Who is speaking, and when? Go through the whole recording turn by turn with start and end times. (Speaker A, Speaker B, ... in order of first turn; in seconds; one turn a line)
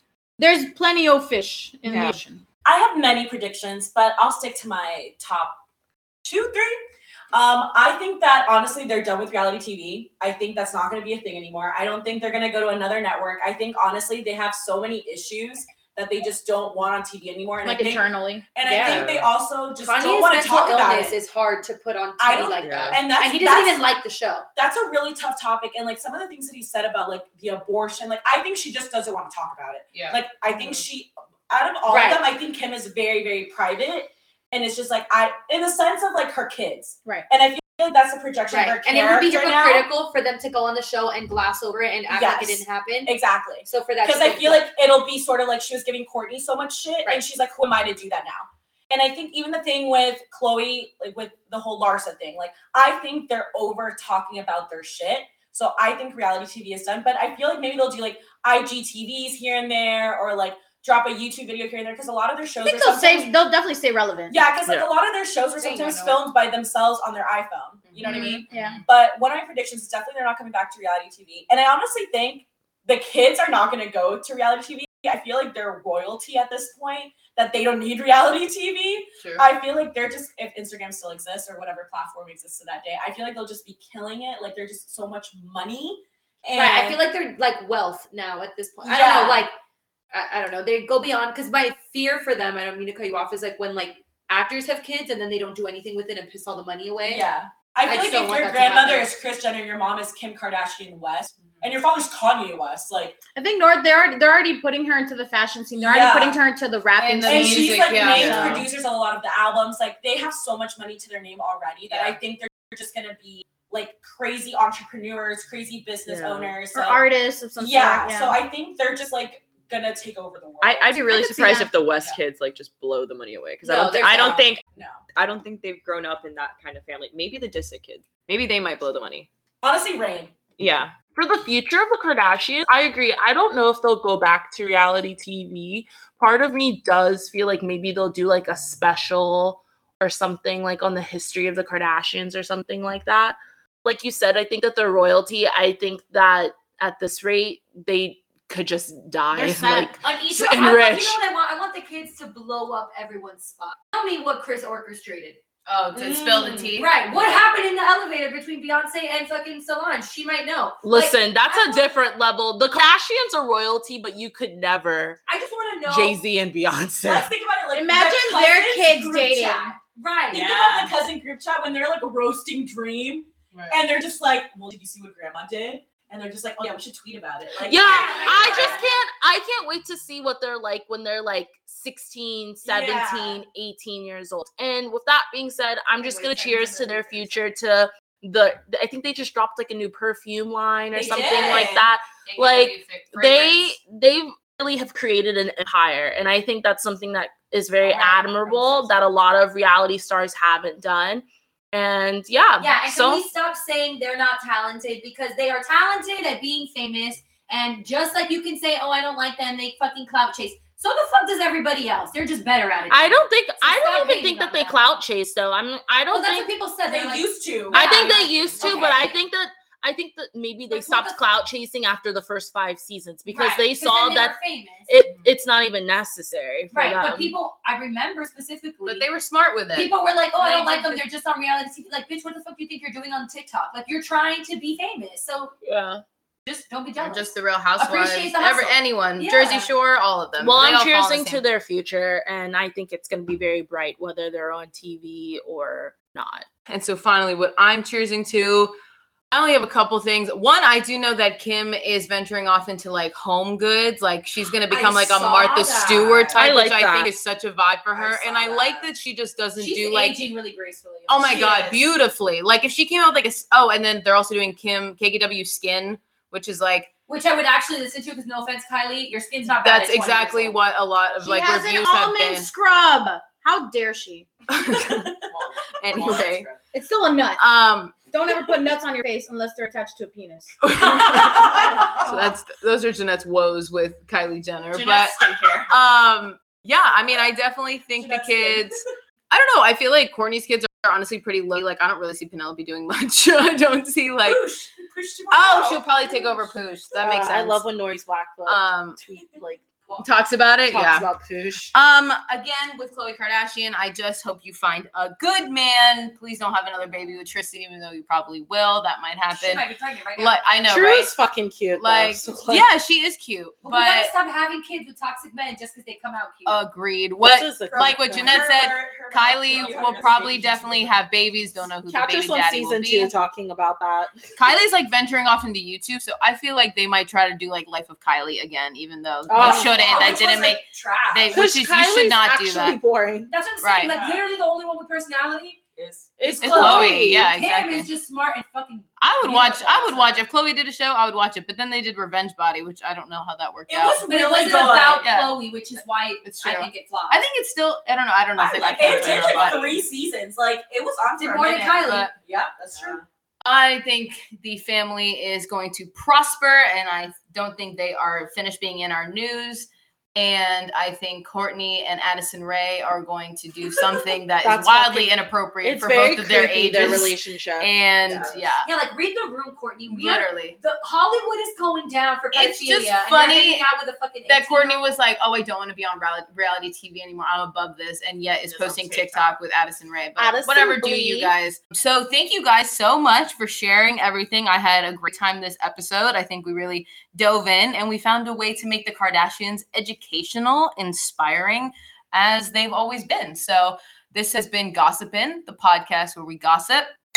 Speaker A: 0.4-2.4
Speaker B: 1.9-2.2
Speaker C: 2.6-5.6
Speaker C: 6.2-6.8
Speaker C: 7.3-21.1
Speaker A: 17.6-19.0
Speaker D: 18.6-19.1
Speaker B: 18.8-19.3
Speaker D: 19.8-24.4
Speaker C: 22.2-23.8
Speaker B: 22.6-23.0
Speaker C: 24.6-39.9
Speaker E: 29.9-30.8
Speaker D: 31.9-32.2
Speaker D: 38.5-44.7
Speaker C: 42.1-63.3
Speaker A: 62.6-64.4
Speaker C: 64.3-87.0
Speaker D: 65.6-66.2
Speaker E: 67.9-68.8
Speaker A: 68.0-68.8
Speaker E: 79.2-79.5
Speaker D: 86.5-89.5
Speaker C: 88.8-89.5
Speaker D: 90.1-97.2
Speaker C: 97.0-103.2
Speaker D: 97.8-99.1
Speaker A: 103.3-108.7
Speaker C: 105.8-106.4
Speaker E: 107.0-108.7
Speaker C: 107.2-122.2
Speaker B: 116.1-116.4
Speaker A: 116.7-118.4
Speaker B: 120.6-124.6
Speaker A: 121.1-121.7
Speaker D: 123.6-124.4
Speaker C: 124.0-125.0
Speaker B: 125.1-129.3
Speaker C: 129.6-130.3
Speaker B: 130.6-131.0
Speaker F: 131.1-151.2
Speaker A: 149.3-149.9
Speaker D: 150.0-155.4
Speaker E: 155.7-156.9
Speaker D: 156.7-161.8
Speaker C: 157.1-157.4
Speaker F: 160.8-165.2
Speaker D: 165.3-166.2
Speaker F: 165.8-167.3
Speaker C: 167.0-169.6
Speaker A: 167.7-169.8
Speaker D: 169.4-170.5
Speaker C: 170.3-178.8
Speaker B: 170.3-170.9
Speaker E: 173.5-173.8
Speaker F: 177.6-203.2
Speaker D: 177.7-178.9
Speaker C: 182.6-183.4
Speaker D: 186.0-187.4
Speaker C: 190.9-191.9
Speaker E: 192.2-193.8
Speaker C: 198.0-198.7
Speaker D: 198.3-198.8
Speaker D: 202.6-214.8
Speaker F: 212.9-216.5
Speaker D: 216.1-219.1
Speaker C: 216.9-219.1
Speaker F: 217.7-224.4
Speaker D: 220.7-221.2
Speaker D: 223.3-224.9
Speaker F: 224.9-227.3
Speaker D: 226.7-229.1
Speaker E: 228.8-229.9
Speaker D: 229.7-235.5
Speaker F: 230.4-230.9
Speaker F: 235.6-236.0
Speaker D: 236.4-239.7
Speaker E: 237.0-241.4
Speaker F: 240.4-246.5
Speaker E: 246.7-248.8
Speaker E: 249.3-260.2
Speaker D: 254.7-256.4
Speaker F: 256.3-257.1
Speaker C: 257.9-258.9
Speaker D: 259.6-261.9
Speaker E: 261.1-266.9
Speaker D: 267.1-270.6
Speaker E: 269.5-272.5
Speaker A: 271.2-274.3
Speaker E: 274.5-275.2
Speaker B: 275.3-276.6
Speaker E: 275.8-276.4
Speaker C: 275.9-276.2
Speaker A: 276.7-277.4
Speaker E: 277.4-278.1
Speaker A: 278.1-280.6
Speaker E: 280.7-294.5
Speaker C: 280.8-282.1
Speaker C: 284.7-285.7
Speaker C: 287.9-288.9
Speaker C: 294.2-296.5
Speaker E: 295.3-297.6
Speaker F: 297.0-298.6
Speaker E: 298.4-299.0
Speaker C: 299.1-299.4
Speaker F: 299.2-299.6
Speaker E: 300.0-301.1
Speaker F: 300.7-301.1
Speaker E: 301.7-309.6
Speaker D: 309.3-310.4
Speaker E: 310.1-311.2
Speaker E: 311.7-314.1
Speaker C: 312.2-312.6
Speaker D: 313.6-316.6
Speaker E: 316.4-323.1
Speaker C: 317.7-321.0
Speaker E: 324.4-332.8
Speaker C: 329.3-331.5
Speaker F: 331.4-332.4
Speaker D: 333.3-335.6
Speaker E: 333.6-333.9
Speaker B: 333.9-334.2
Speaker B: 335.8-336.2
Speaker F: 336.2-337.2
Speaker D: 336.2-338.9
Speaker E: 336.4-337.9
Speaker E: 339.0-345.4
Speaker C: 343.7-345.1
Speaker D: 344.0-347.2
Speaker E: 346.2-349.8
Speaker C: 348.4-353.0
Speaker B: 348.8-349.6
Speaker D: 351.2-352.1
Speaker E: 351.8-352.1
Speaker B: 352.7-353.0
Speaker E: 353.4-368.7
Speaker F: 364.4-365.0
Speaker F: 365.6-367.7
Speaker C: 368.0-368.3
Speaker D: 368.6-374.8
Speaker E: 369.9-370.6
Speaker E: 372.3-373.6
Speaker E: 374.3-397.0
Speaker B: 378.5-379.2
Speaker F: 380.2-381.3